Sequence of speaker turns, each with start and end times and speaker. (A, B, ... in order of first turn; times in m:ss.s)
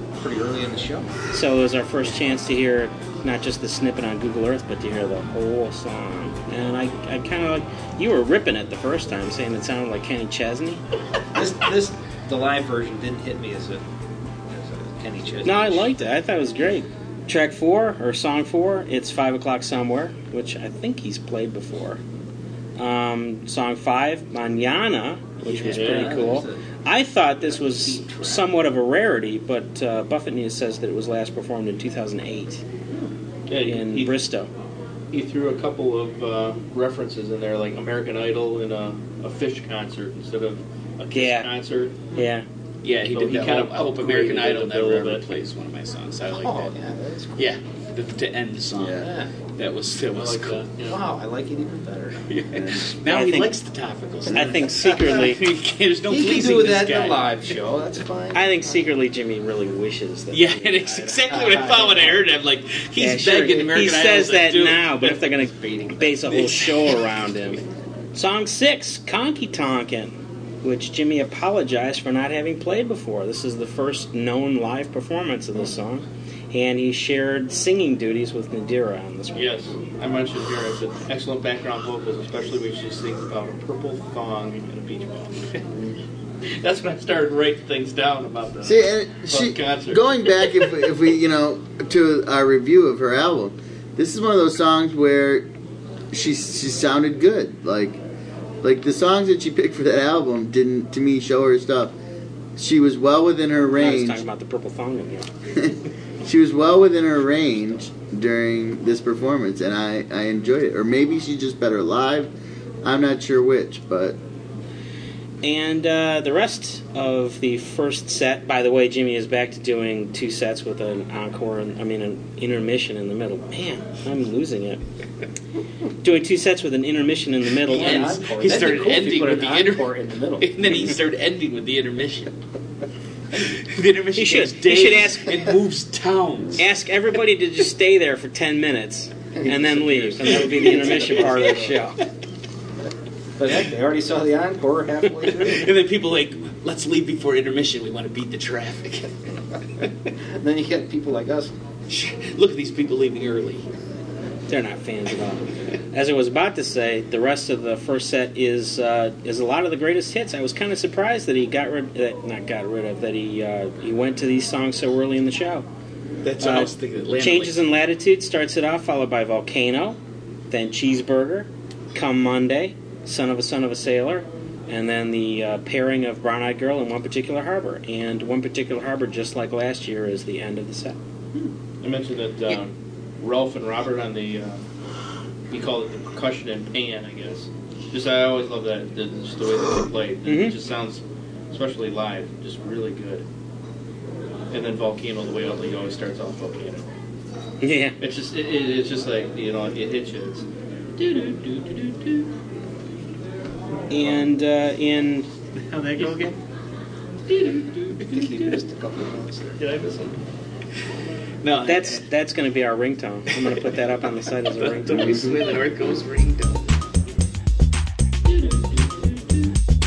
0:00.2-0:01.1 A
0:01.3-0:10.8 B
0:11.3-0:13.8 A
0:14.5-0:15.9 A
0:15.4-0:22.0 B
0:22.8-0:32.6 B
0:25.4-0:26.6 A
0:25.5-0:26.4 C
0:27.5-0:28.5 A
0:33.5-0:34.2 C
0:33.6-0:34.5 B
0:35.1-0:42.0 C
0:41.1-0:41.5 B
0:42.1-0:42.5 B
0:42.8-0:46.8 D
0:43.1-0:45.3 C
0:46.3-0:47.5 A
0:47.4-0:50.7 D
0:48.9-0:49.3 A
0:50.1-0:51.0 C
0:50.9-0:52.2 A
0:52.3-0:57.4 D
0:52.6-0:52.8 E
0:53.1-0:53.5 B
0:54.3-0:55.4 B
0:56.1-0:58.8 A
0:58.3-1:01.2 B
1:00.3-1:05.2 D
1:01.2-1:02.2 A
1:03.0-1:19.6 B
1:05.6-1:06.0 A
1:06.3-1:07.2 D
1:19.3-1:25.6 C
1:26.6-1:30.6 C
1:28.6-1:35.4 E
1:36.1-1:38.0 E
1:38.6-1:42.0 E
1:42.6-1:44.2 E
1:43.8-1:45.3 B
1:46.2-1:52.3 E
1:52.8-1:54.2 E
1:55.4-2:04.8 B
2:06.0-2:08.2 B
2:07.7-2:10.6 A
2:07.7-2:12.3 D
2:13.3-2:16.6 D
2:14.2-2:15.6 B
2:16.6-2:22.0 B
2:19.4-2:21.7 A
2:20.2-2:21.7 D
2:23.4-2:25.7 A
2:25.2-2:29.1 D
2:30.4-2:31.5 A
2:31.9-2:33.7 D
2:34.5-2:45.7 B
2:46.2-2:47.6 D
2:46.4-2:50.0 B
2:50.5-3:01.0 B
3:01.8-3:04.6 C
3:05.5-3:13.2 C
3:10.2-3:10.6 B
3:14.5-3:16.8 C
3:17.6-3:18.0 B
3:18.0-3:20.4 C
3:21.0-3:22.2 C
3:23.9-3:25.3 B
3:25.7-3:26.3 C
3:25.9-3:26.3 A
3:27.4-3:28.2 C
3:28.0-3:29.6 A
3:29.6-3:30.2 C
3:31.4-3:32.0 D
3:31.6-3:35.2 B
3:33.4-3:33.7 D
3:34.6-3:36.6 D
3:34.9-3:35.4 E